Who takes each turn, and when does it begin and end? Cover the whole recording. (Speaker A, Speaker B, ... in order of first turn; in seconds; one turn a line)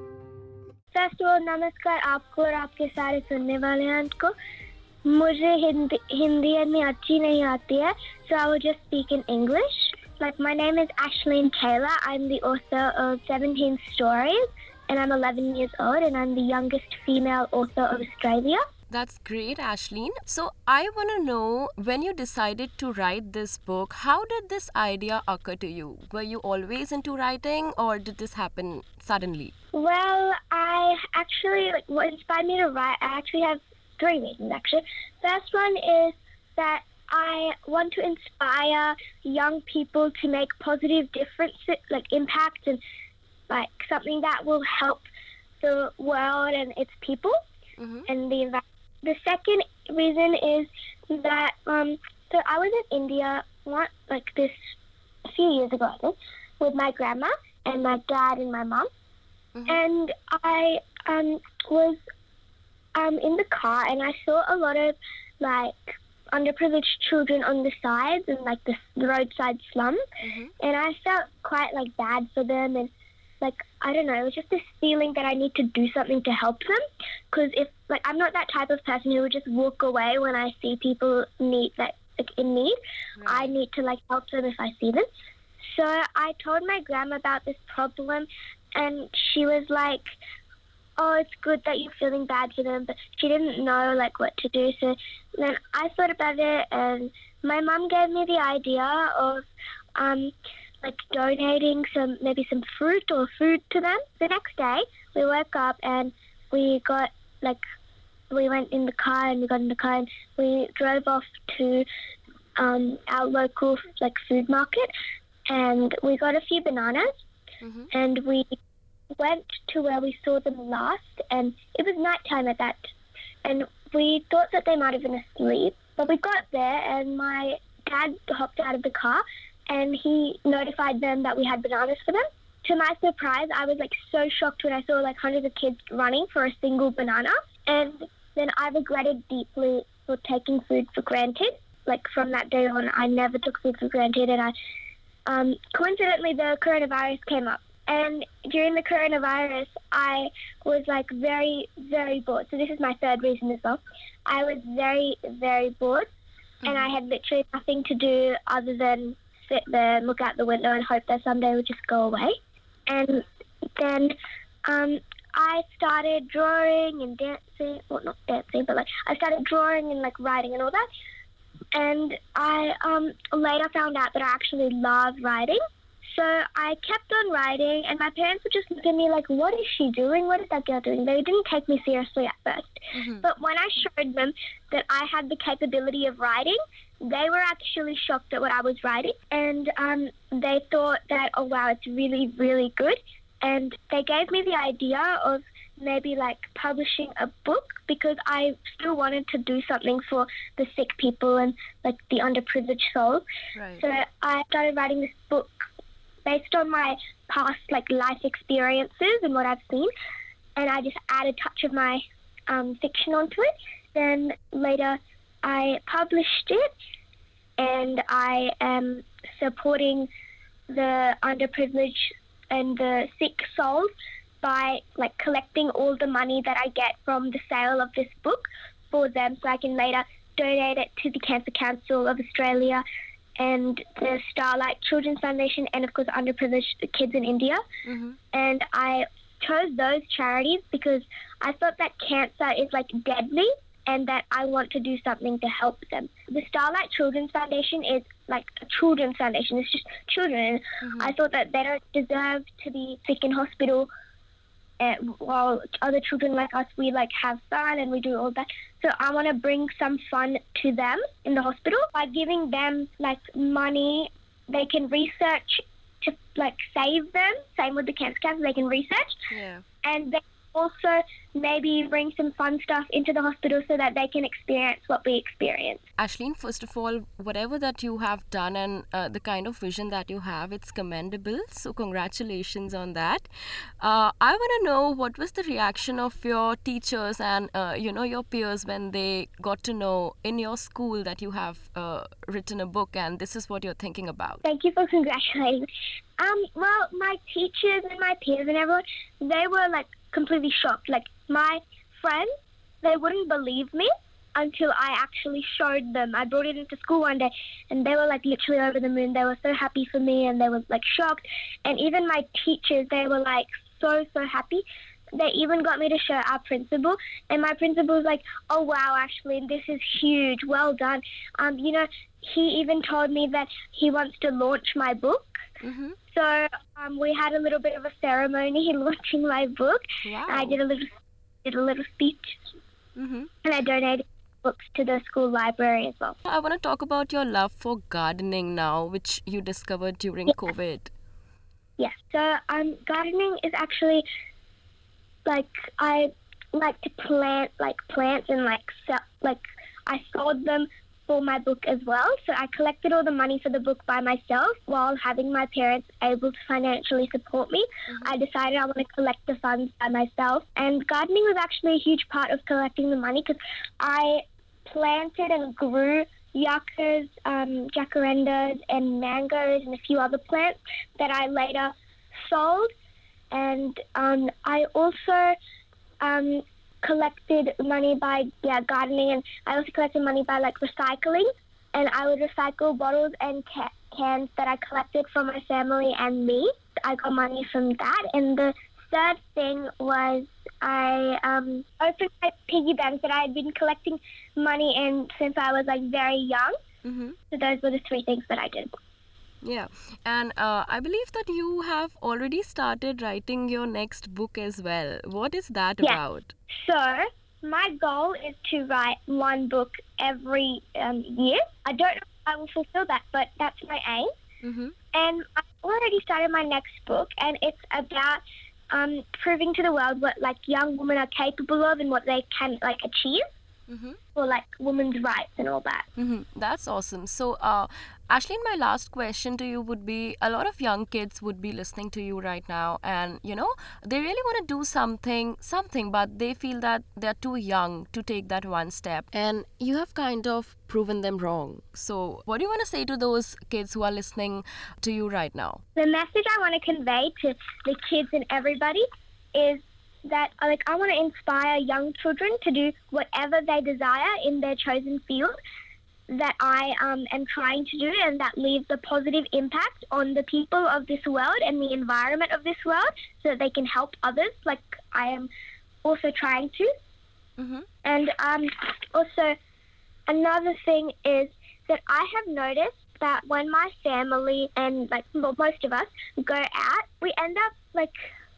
Speaker A: 0.9-4.3
Speaker A: 5.0-18.6
Speaker B: 18.9-29.5
Speaker A: 29.7-42.8
Speaker A: 43.5-45.1
Speaker A: 45.6-47.4
Speaker B: 47.8-48.1
Speaker A: 48.1-54.6
Speaker A: 55.3-58.9
Speaker B: 59.5-59.8
Speaker A: 59.7-62.0
Speaker A: 63.0-70.0
Speaker B: 70.2-70.5
Speaker A: 70.6-85.1
Speaker B: 83.2-83.5
Speaker A: 85.6-90.2
Speaker A: 91.0-107.6
Speaker A: 108.3-111.9
Speaker A: 112.6-114.9
Speaker A: 115.5-117.1
Speaker B: 117.6-117.9
Speaker A: 117.9-118.5
Speaker A: 119.2-122.9
Speaker A: 123.5-144.5
Speaker A: 145.3-156.1
Speaker B: 156.6-156.9
Speaker A: 156.6-162.3
Speaker A: 162.9-164.1
Speaker A: 164.7-170.9
Speaker A: 171.7-203.2
Speaker B: 182.9-183.2
Speaker B: 203.6-203.8
Speaker A: 203.8-205.7
Speaker A: 206.2-209.9
Speaker A: 210.6-216.7
Speaker A: 217.6-220.1
Speaker A: 220.7-223.9
Speaker A: 224.4-232.8
Speaker A: 233.4-237.6
Speaker B: 237.9-238.2
Speaker A: 238.3-253.9
Speaker B: 250.8-251.1
Speaker A: 254.8-269.1
Speaker B: 269.3-269.6
Speaker A: 269.8-275.9
Speaker B: 276.0-283.3
Speaker B: 283.8-294.4
Speaker A: 294.4-295.7
Speaker A: 296.2-302.3
Speaker A: 302.8-314.6
Speaker A: 315.2-325.4
Speaker B: 325.6-326.0
Speaker A: 326.1-330.9
Speaker B: 330.1-330.6
Speaker A: 331.4-332.4
Speaker B: 333.0-333.3
Speaker A: 333.4-336.2
Speaker B: 336.3-340.9
Speaker A: 341.8-344.1
Speaker A: 345.3-371.7
Speaker B: 357.9-358.2
Speaker A: 372.2-372.7
Speaker A: 373.3-375.4
Speaker A: 376.0-396.6
Speaker B: 396.8-397.2
Speaker A: 397.3-398.7
Speaker B: 399.4-406.3
Speaker A: 406.6-414.1
Speaker B: 414.4-414.7
Speaker A: 414.9-423.2
Speaker B: 423.7-424.0
Speaker A: 424.1-425.9
Speaker B: 426.0-445.6
Speaker A: 445.8-455.4
Speaker A: 456.1-465.3
Speaker A: 465.8-466.7
Speaker B: 467.4-467.6
Speaker A: 467.8-469.4
Speaker A: 470.1-478.1